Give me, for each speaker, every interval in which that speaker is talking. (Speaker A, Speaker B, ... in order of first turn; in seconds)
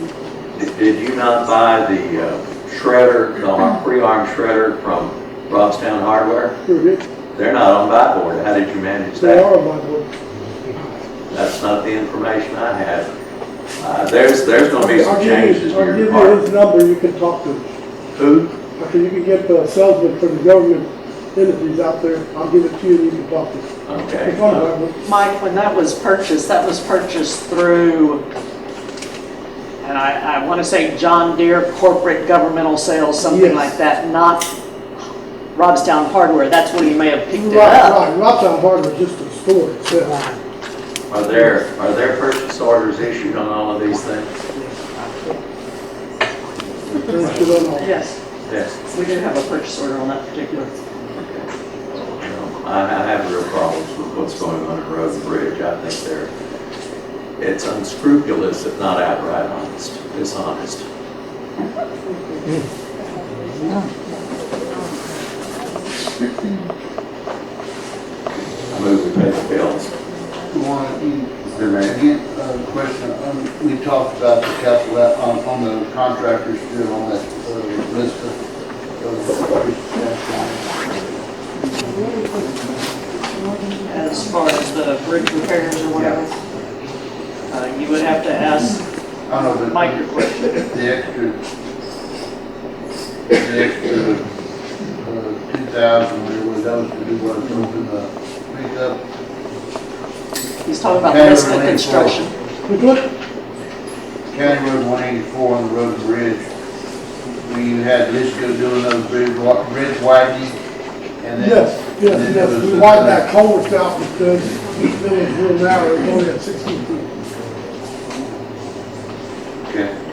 Speaker A: 0.5-6.6, 7.3-9.5, 11.3-13.1, 13.8-16.5, 18.1-18.6, 23.9-24.7, 41.1-44.3, 48.4-48.8, 51.2-56.3, 57.4-60.9, 68.7-69.9
Speaker B: 6.7-7.0, 9.2-10.1, 14.7-17.7, 18.8-23.7, 24.2-24.9, 33.2-33.7, 37.3-40.2, 46.9-47.9, 102.7-103.1, 111.4-117.1
Speaker C: 25.0-28.2, 29.8-34.5, 35.5-38.0, 47.8-48.2, 48.9-50.8, 83.9-86.4, 87.5-88.9, 89.5-90.7, 100.7-102.3
Speaker D: 70.5-78.4, 79.0-81.1, 89.3-90.1, 90.7-91.4, 93.3-94.3, 95.0-99.0, 101.0-102.2, 104.3-106.5, 107.4-110.6, 111.2-113.3, 119.7-119.9